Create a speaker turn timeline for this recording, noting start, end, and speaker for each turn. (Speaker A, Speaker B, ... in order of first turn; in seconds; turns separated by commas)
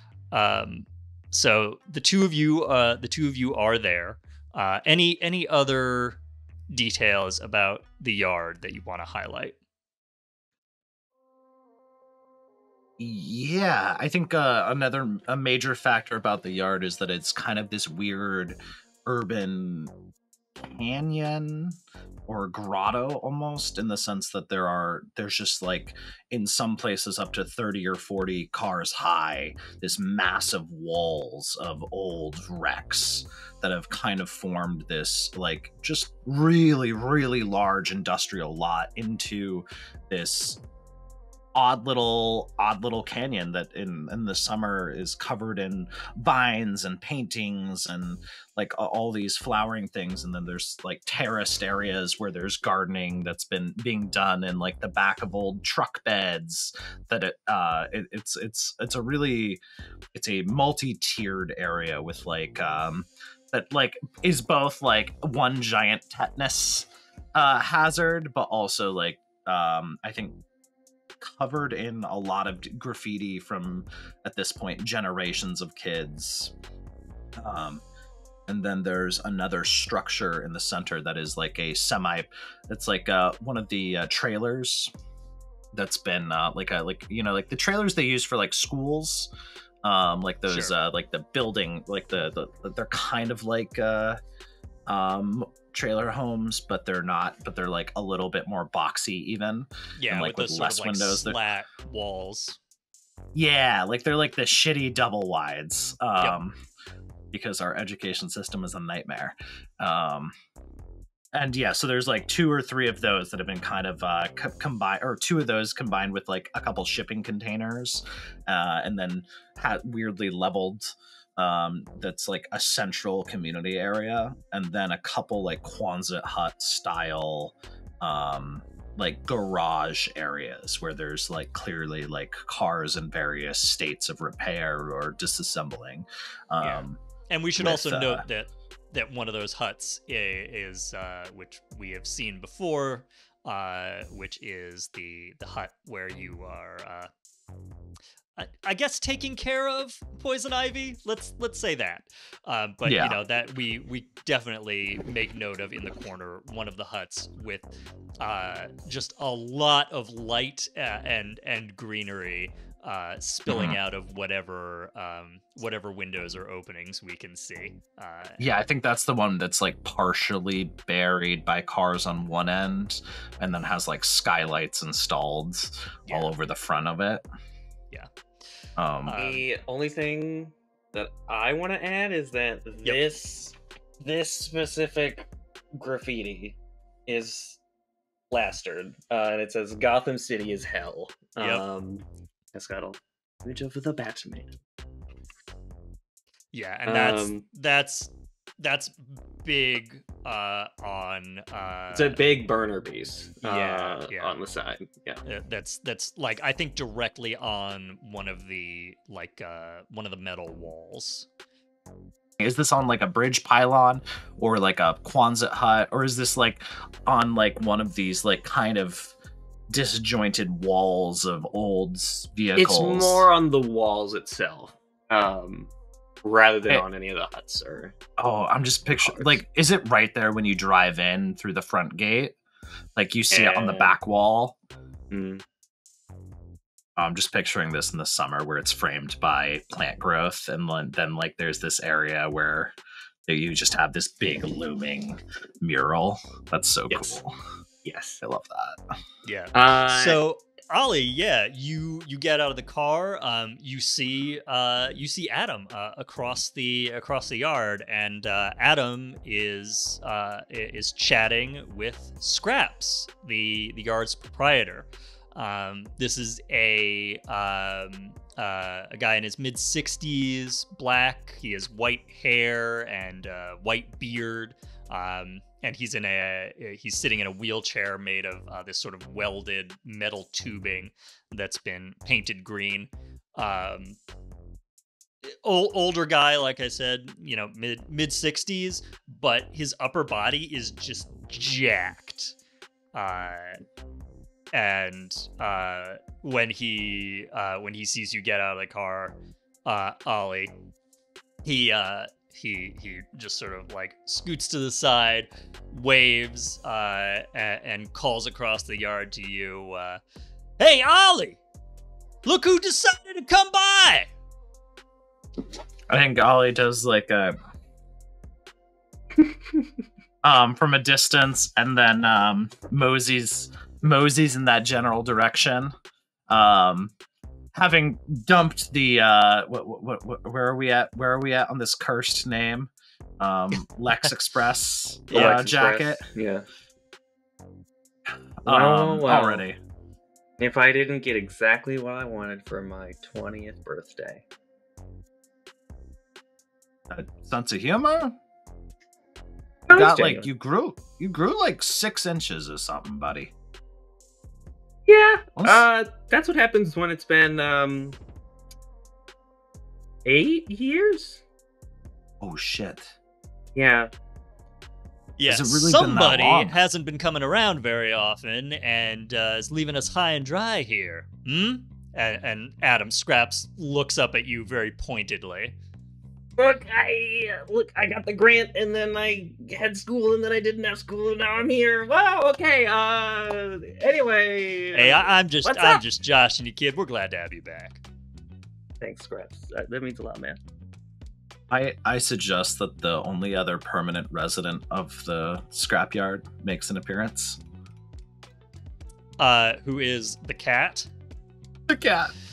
Speaker A: 0.3-6.2, Speaker A: 6.7-9.6, Speaker B: 13.0-19.9, Speaker B: 20.6-40.6, Speaker B: 41.5-59.6, Speaker B: 60.1-70.4, Speaker B: 71.2-76.5, Speaker B: 77.4-77.8, Speaker B: 78.5-84.9, Speaker B: 85.7-89.3, Speaker B: 89.8-94.2, Speaker A: 90.5-90.7, Speaker B: 94.9-101.4, Speaker A: 100.0-102.6, Speaker B: 103.3-106.6, Speaker B: 107.3-110.3, Speaker B: 111.3-137.0, Speaker A: 136.6-147.1, Speaker B: 137.6-138.2, Speaker A: 148.4-168.5, Speaker B: 152.8-153.2, Speaker B: 163.5-163.8, Speaker B: 168.4-177.2, Speaker A: 176.1-176.3, Speaker B: 178.8-179.2, Speaker A: 179.0-179.5, Speaker C: 179.2-187.6, Speaker A: 182.8-183.2, Speaker C: 188.3-194.6, Speaker A: 191.4-191.6, Speaker A: 196.5-202.3, Speaker C: 196.9-197.5, Speaker C: 201.9-205.2, Speaker A: 203.4-204.4, Speaker A: 205.2-211.3, Speaker B: 212.4-219.1, Speaker B: 219.7-223.3, Speaker C: 222.6-225.7, Speaker C: 226.2-227.9, Speaker B: 228.2-232.3, Speaker C: 229.0-229.4, Speaker B: 233.0-234.6, Speaker C: 233.3-233.9, Speaker C: 235.1-235.4, Speaker B: 237.0-242.8, Speaker B: 243.3-247.3, Speaker A: 246.9-247.2, Speaker C: 247.8-248.2, Speaker B: 248.2-248.9, Speaker A: 249.2-284.0, Speaker C: 249.5-250.2, Speaker A: 285.3-292.4, Speaker A: 292.9-293.6, Speaker A: 294.5-300.5, Speaker A: 301.4-310.0, Speaker A: 310.6-311.4, Speaker A: 312.2-314.1, Speaker B: 315.9-317.4, Speaker B: 320.2-325.7, Speaker B: 326.3-326.9, Speaker B: 327.5-336.1, Speaker C: 335.1-336.5, Speaker A: 335.1-335.4, Speaker B: 338.4-339.6, Speaker C: 338.4-339.4, Speaker C: 340.4-344.2, Speaker B: 346.9-348.1, Speaker C: 349.7-350.3, Speaker B: 349.7-353.3, Speaker C: 354.9-358.0, Speaker B: 355.4-355.7, Speaker C: 360.1-361.2, Speaker B: 362.2-362.9, Speaker C: 363.6-363.9, Speaker A: 365.2-375.6, Speaker B: 365.3-366.6, Speaker C: 376.4-385.8, Speaker A: 384.7-387.8, Speaker C: 388.8-390.4, Speaker B: 391.5-397.4, Speaker A: 399.2-400.9, Speaker B: 401.7-402.1